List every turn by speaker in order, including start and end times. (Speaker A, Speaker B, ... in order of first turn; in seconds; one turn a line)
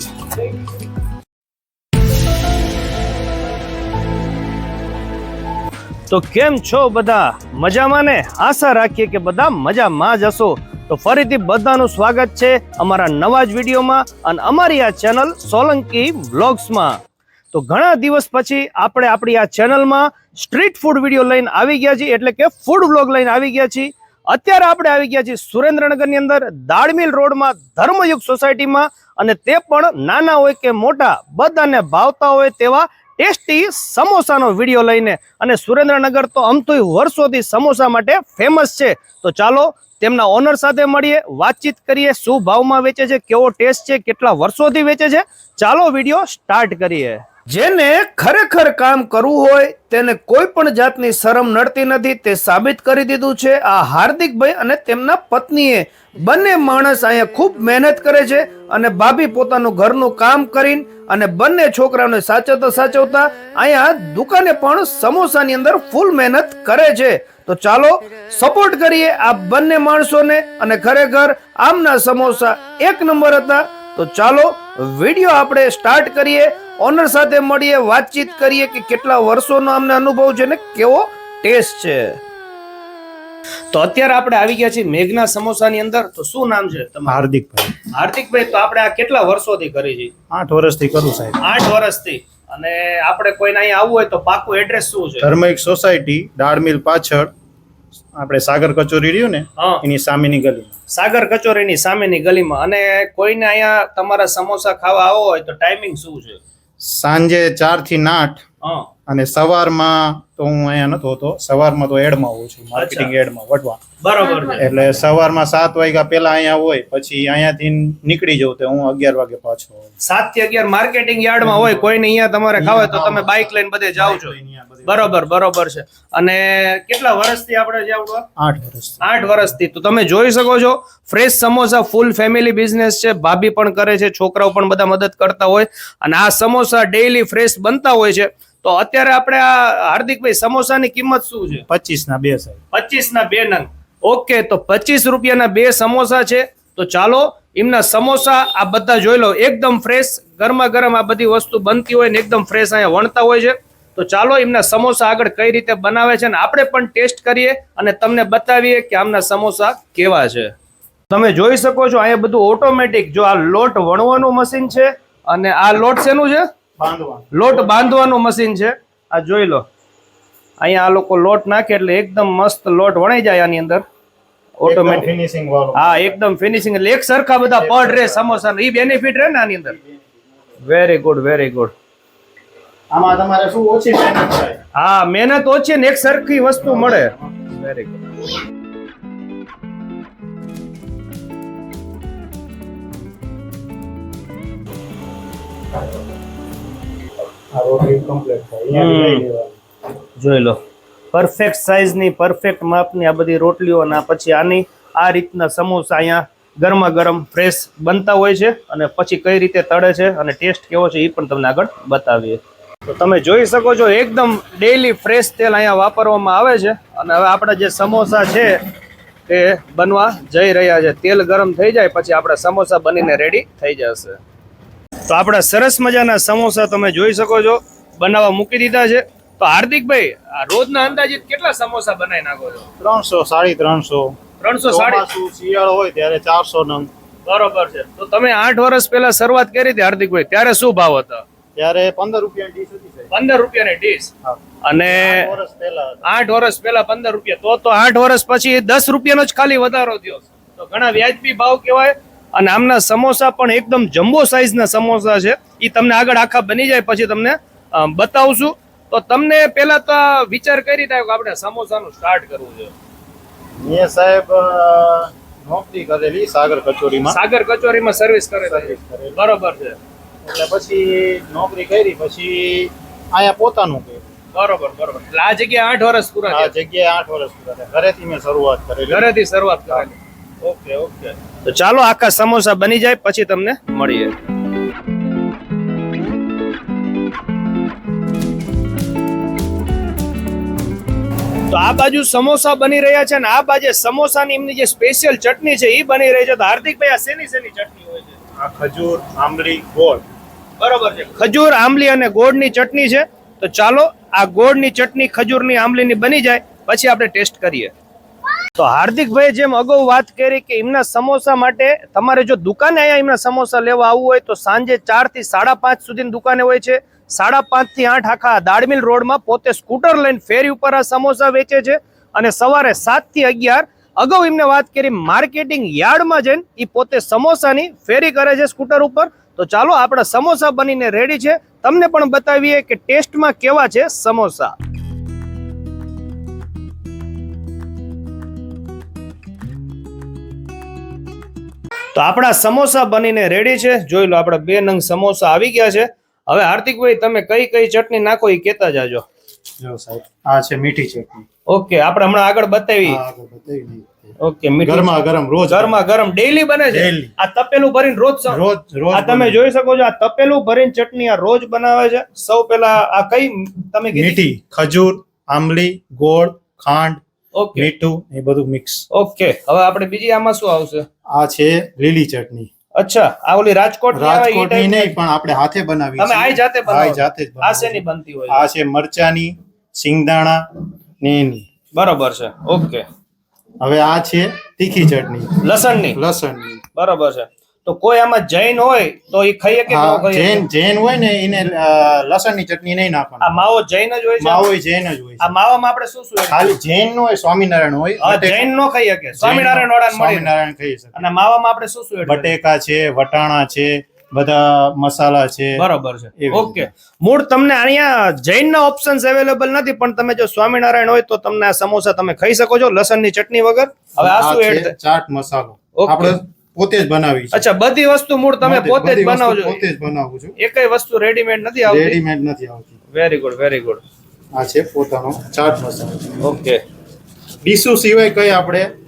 Speaker A: 6.1-17.0
Speaker A: 17.5-82.2
Speaker A: 83.7-87.2
Speaker B: 87.1-87.7
Speaker A: 87.9-90.1
Speaker B: 90.3-91.4
Speaker A: 91.4-95.3
Speaker B: 95.2-97.3
Speaker B: 98.2-100.7
Speaker A: 99.6-99.8
Speaker A: 100.9-106.4
Speaker B: 106.8-108.4
Speaker A: 108.6-108.9
Speaker B: 109.1-113.8
Speaker A: 112.7-113.1
Speaker A: 114.0-114.6
Speaker B: 114.4-119.9
Speaker A: 120.0-124.3
Speaker B: 121.4-121.9
Speaker B: 122.5-125.2
Speaker A: 124.8-128.2
Speaker B: 128.4-129.0
Speaker A: 129.0-141.7
Speaker B: 141.7-142.6
Speaker A: 142.7-160.5
Speaker A: 161.1-166.5
Speaker B: 166.8-167.9
Speaker A: 167.3-169.6
Speaker A: 170.6-173.8
Speaker A: 174.6-175.1
Speaker B: 174.7-176.2
Speaker A: 175.7-179.8
Speaker B: 177.5-179.0
Speaker B: 179.7-180.2
Speaker A: 180.6-181.7
Speaker B: 182.9-184.6
Speaker A: 184.8-188.2
Speaker B: 186.6-187.3
Speaker B: 197.5-199.6
Speaker A: 198.7-199.2
Speaker A: 200.2-200.6
Speaker A: 201.1-218.6
Speaker A: 219.3-224.2
Speaker A: 225.1-232.7
Speaker B: 232.8-236.9
Speaker A: 234.4-235.1
Speaker A: 237.2-241.2
Speaker B: 241.6-243.1
Speaker A: 243.1-244.1
Speaker B: 244.2-246.0
Speaker A: 244.6-245.3
Speaker A: 246.0-262.7
Speaker B: 263.6-267.2
Speaker A: 267.1-269.8
Speaker B: 268.4-269.2
Speaker B: 270.2-274.1
Speaker A: 274.3-276.5
Speaker B: 276.3-279.1
Speaker A: 278.9-284.1
Speaker A: 291.5-298.2
Speaker B: 298.4-300.1
Speaker A: 300.6-307.7
Speaker A: 308.5-334.5
Speaker A: 341.9-349.0
Speaker B: 349.6-351.2
Speaker A: 351.5-353.0
Speaker B: 352.9-355.8
Speaker A: 354.2-354.9
Speaker A: 355.5-364.2
Speaker B: 356.7-357.1
Speaker B: 358.3-359.4
Speaker B: 363.9-367.0
Speaker A: 367.3-367.7
Speaker B: 367.5-368.8
Speaker A: 368.9-370.9
Speaker B: 371.1-372.5
Speaker A: 372.8-374.9
Speaker B: 373.9-381.5
Speaker A: 376.0-378.5
Speaker A: 381.7-382.8
Speaker B: 383.6-385.4
Speaker A: 385.4-386.0
Speaker B: 385.9-386.6
Speaker A: 386.7-390.4
Speaker B: 389.7-393.4
Speaker A: 393.2-394.5
Speaker B: 394.2-395.3
Speaker A: 395.2-396.6
Speaker B: 396.3-398.5
Speaker A: 398.0-400.3
Speaker B: 399.2-401.0
Speaker A: 400.9-402.3
Speaker B: 402.1-405.6
Speaker A: 405.6-414.7
Speaker B: 406.2-406.7
Speaker B: 414.0-417.4
Speaker A: 415.7-416.1
Speaker A: 417.3-419.6
Speaker B: 418.4-420.3
Speaker A: 420.4-422.0
Speaker B: 421.6-422.7
Speaker A: 422.9-423.8
Speaker B: 424.3-426.2
Speaker A: 426.2-426.6
Speaker B: 427.4-428.7